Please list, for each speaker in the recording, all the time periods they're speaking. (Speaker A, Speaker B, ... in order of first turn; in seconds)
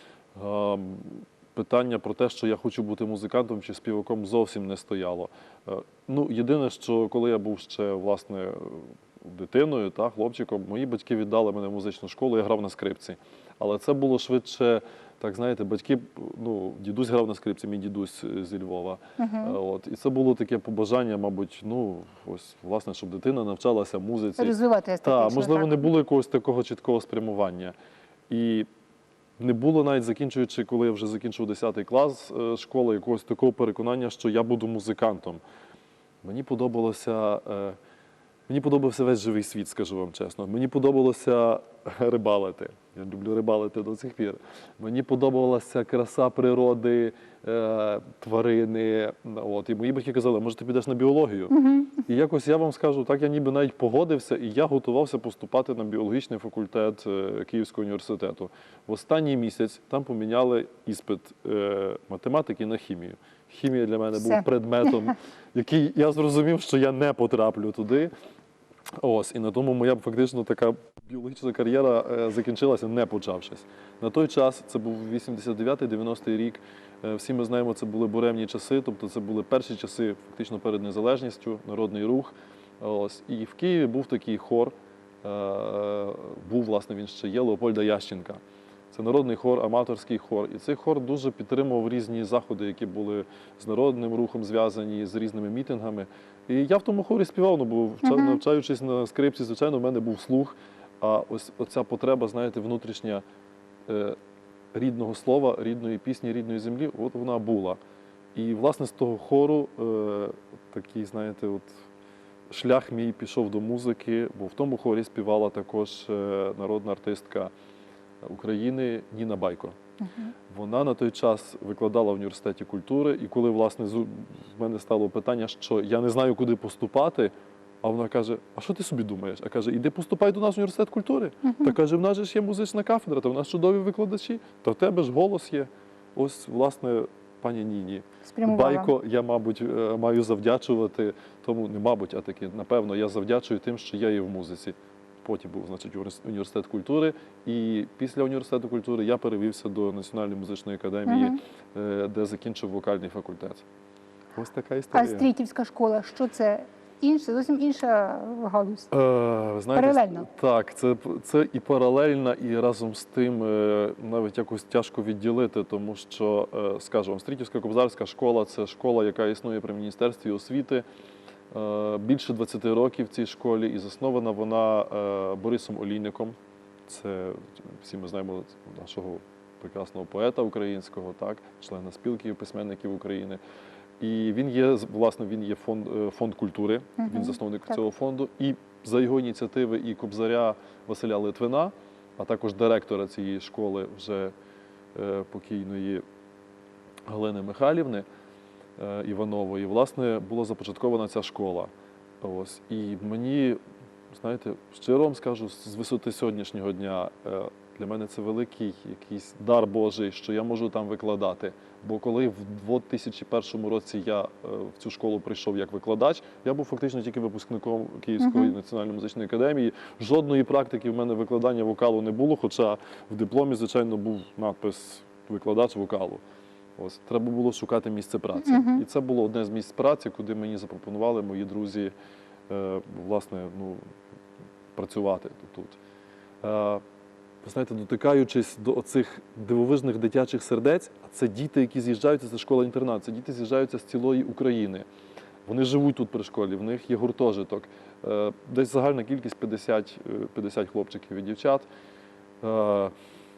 Speaker A: 0.3-27.8, 28.3-28.7, 29.4-35.4, 36.2-37.8, 38.5-68.1, 69.0-88.4, 88.9-103.2, 103.9-104.2, 104.7-107.8, 108.3-111.7, 112.5-117.5, 118.2-119.8, 120.5-153.6, 154.3-155.3, 158.9-170.8, 171.5-183.4, 184.0-194.3, 194.9-196.0, 197.1-198.1, 198.8-203.6, 204.1-226.2, 226.8-231.9, 232.5-233.9, 234.8-235.8, 236.4-236.8, 237.4-244.9, 245.5-251.7, 252.4-252.9
Speaker B: 19.2-19.6, 24.4-25.9, 51.5-51.9, 64.2-64.5, 98.0-98.4, 120.0-120.3, 131.4-131.8, 138.3-138.9, 151.1-151.4, 154.9-158.9, 159.8-160.3, 187.0-187.4, 218.2-218.6, 228.4-228.8